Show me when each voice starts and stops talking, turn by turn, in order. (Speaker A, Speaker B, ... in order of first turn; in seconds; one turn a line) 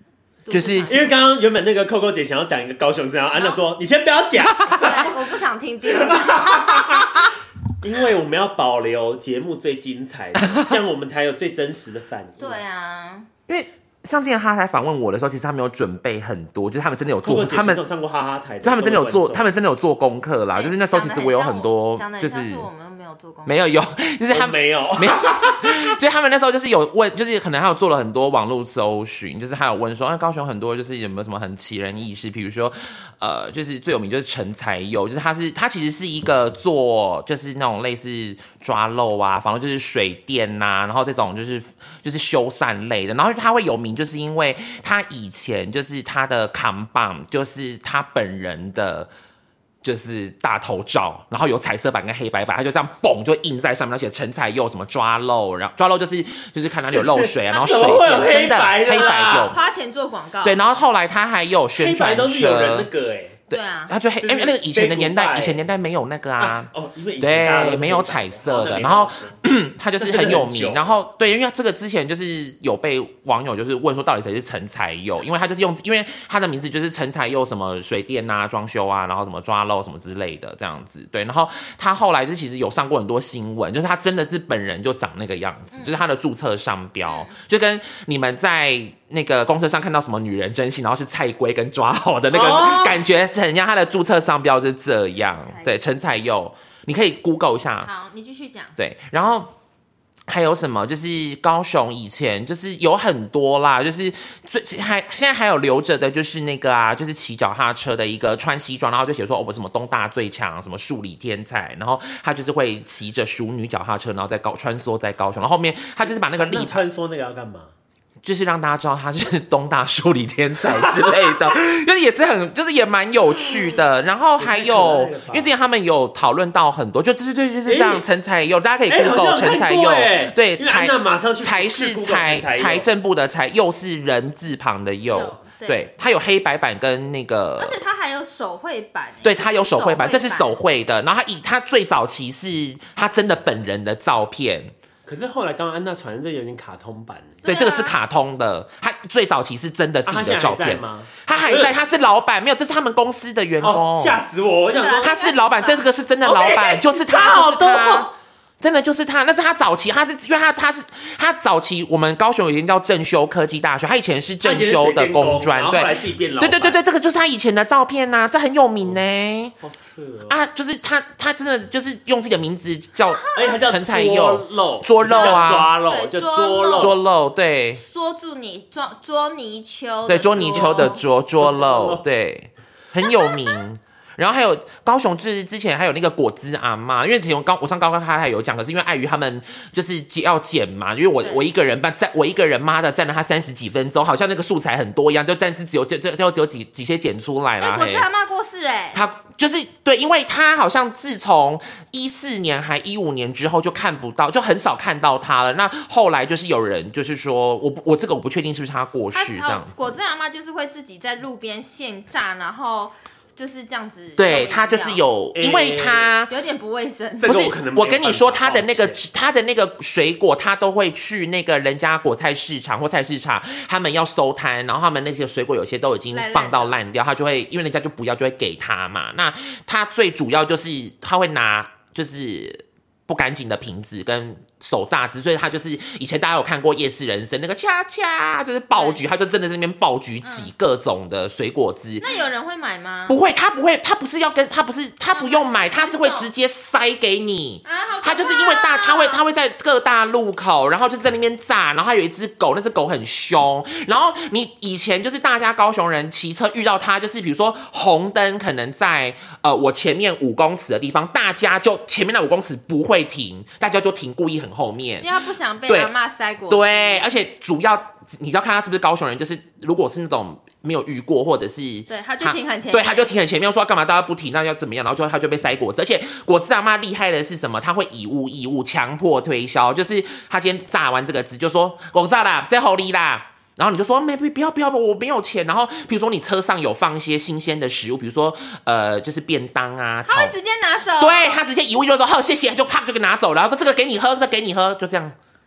Speaker A: 0.4-1.1
Speaker B: 0.5-1.1
Speaker C: 0.9-5.1
Speaker B: 4.5-5.1
Speaker A: 4.7-7.2
Speaker C: 5.9-7.2
Speaker C: 7.8-12.6
Speaker B: 10.5-10.7
Speaker A: 12.4-13.3
Speaker B: 13.5-17.8
Speaker C: 17.2-19.5
Speaker B: 18.6-22.7
Speaker A: 20.5-23.7
Speaker B: 23.4-49.1
Speaker C: 24.3-25.9
Speaker B: 49.8-59.6
Speaker C: 56.9-59.6
Speaker A: 57.5-58.1
Speaker A: 58.9-60.6
Speaker B: 60.4-62.9
Speaker C: 61.8-63.4
Speaker B: 63.5-97.9
Speaker A: 63.5-63.9
Speaker C: 64.2-65.6
Speaker C: 66.4-69.4
Speaker C: 70.0-70.9
Speaker A: 85.7-86.0
Speaker A: 87.0-87.4
Speaker C: 92.3-93.0
Speaker A: 95.3-95.7
Speaker A: 97.8-98.7
Speaker B: 98.8-99.5
Speaker B: 100.3-116.8
Speaker C: 116.0-117.7
Speaker B: 118.2-137.8
Speaker C: 120.7-121.5
Speaker C: 123.4-123.8
Speaker C: 124.4-125.5
Speaker C: 127.7-128.0
Speaker C: 128.9-132.9
Speaker A: 135.1-135.9
Speaker A: 137.6-140.5
Speaker B: 139.2-144.7
Speaker C: 145.1-147.4
Speaker A: 147.4-148.0
Speaker B: 147.4-154.2
Speaker C: 150.1-151.8
Speaker C: 153.6-155.2
Speaker A: 154.7-155.9
Speaker B: 154.8-169.5
Speaker C: 156.2-158.1
Speaker C: 164.4-166.8
Speaker C: 169.6-170.4
Speaker B: 170.3-175.7
Speaker A: 173.1-173.6
Speaker C: 173.3-177.0
Speaker A: 175.8-177.0
Speaker B: 176.7-177.8
Speaker A: 177.8-181.0
Speaker B: 180.1-198.1
Speaker C: 180.3-182.0
Speaker A: 183.0-183.6
Speaker A: 197.6-199.0
Speaker B: 198.9-209.7
Speaker A: 209.1-215.0
Speaker B: 214.2-216.3
Speaker C: 215.3-216.1
Speaker A: 216.3-217.4
Speaker C: 217.2-219.0
Speaker B: 217.2-242.1
Speaker A: 226.1-226.8
Speaker A: 238.7-239.0
Speaker A: 240.2-240.5
Speaker A: 242.0-243.2
Speaker B: 243.1-265.1
Speaker A: 245.1-246.3
Speaker A: 247.6-249.2
Speaker A: 265.0-267.0
Speaker B: 265.7-265.9
Speaker B: 266.5-290.3
Speaker A: 271.9-273.1
Speaker A: 290.1-291.4
Speaker B: 291.0-295.1